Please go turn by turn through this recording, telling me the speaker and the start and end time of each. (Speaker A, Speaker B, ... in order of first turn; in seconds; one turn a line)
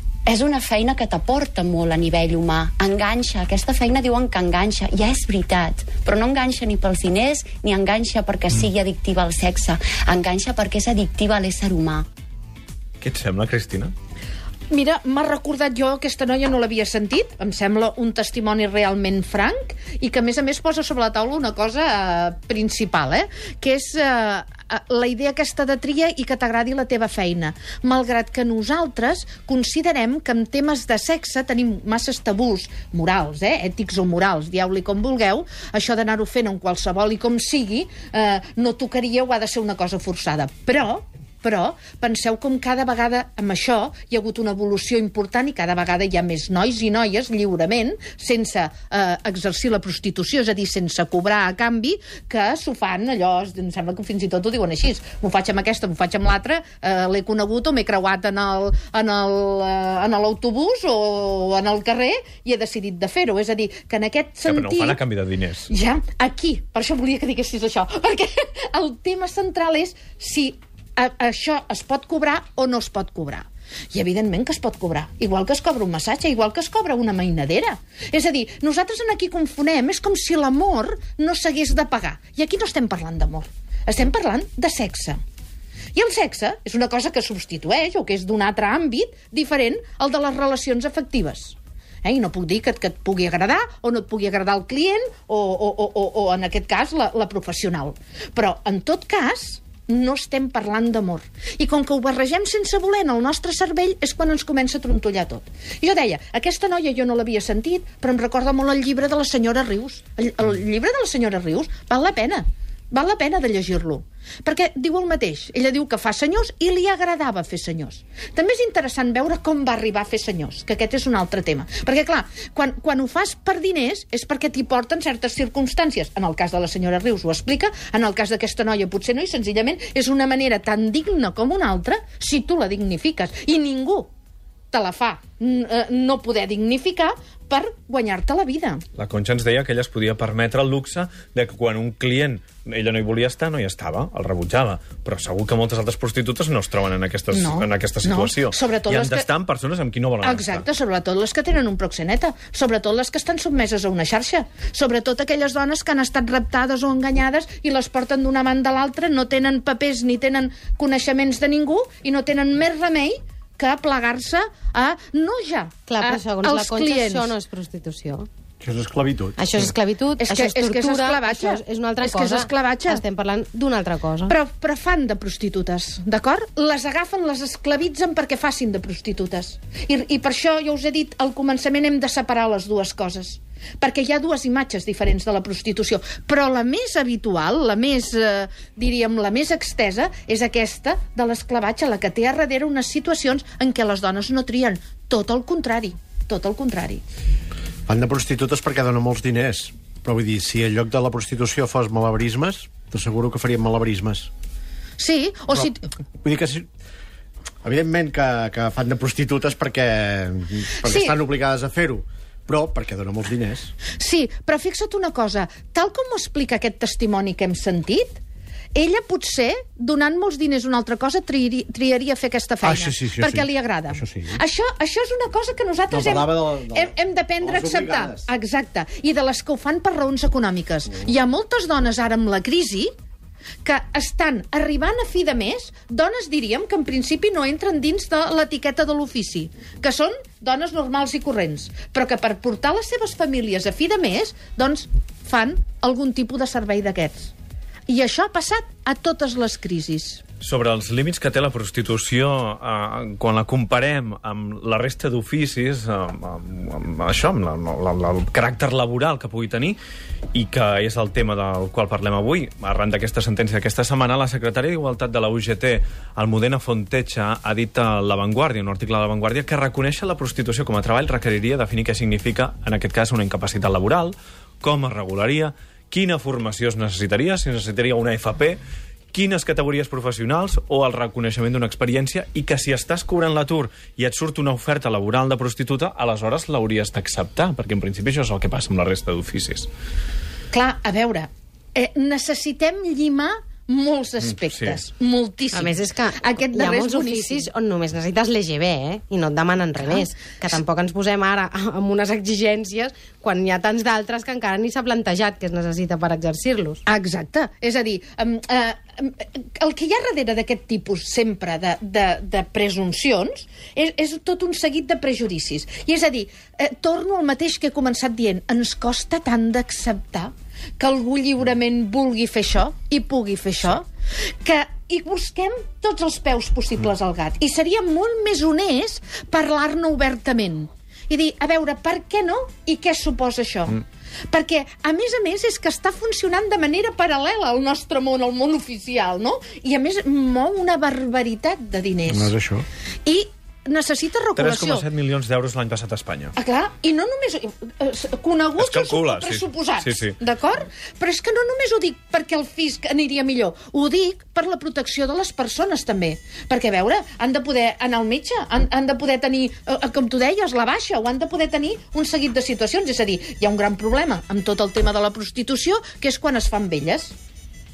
Speaker A: 0.3-12.1
Speaker B: 13.0-13.9
Speaker C: 14.7-65.0
Speaker B: 64.5-65.7
Speaker C: 65.7-85.2
Speaker C: 86.0-134.1
Speaker C: 134.7-138.8
Speaker B: 139.0-150.7
Speaker C: 147.3-149.3
Speaker C: 150.2-167.3
Speaker D: 165.9-168.3
Speaker E: 168.6-169.4
Speaker D: 169.4-174.4
Speaker C: 170.2-173.0
Speaker C: 174.3-197.0
Speaker E: 197.9-204.3
Speaker C: 205.0-205.9
Speaker E: 206.2-206.7
Speaker E: 207.6-213.7
Speaker C: 210.8-211.2
Speaker C: 214.0-218.2
Speaker C: 218.8-232.9
Speaker E: 222.6-224.4
Speaker E: 225.9-228.2
Speaker C: 233.6-247.3
Speaker C: 247.9-250.2
Speaker B: 250.4-259.8
Speaker B: 260.3-278.6
Speaker B: 279.1-289.7
Speaker C: 290.5-297.5
Speaker B: 294.3-294.8
Speaker D: 295.5-306.8
Speaker C: 306.9-323.9
Speaker C: 324.4-342.3
Speaker E: 342.1-342.6
Speaker C: 343.1-344.9
Speaker B: 344.4-346.3
Speaker C: 346.4-367.1
Speaker B: 348.6-350.2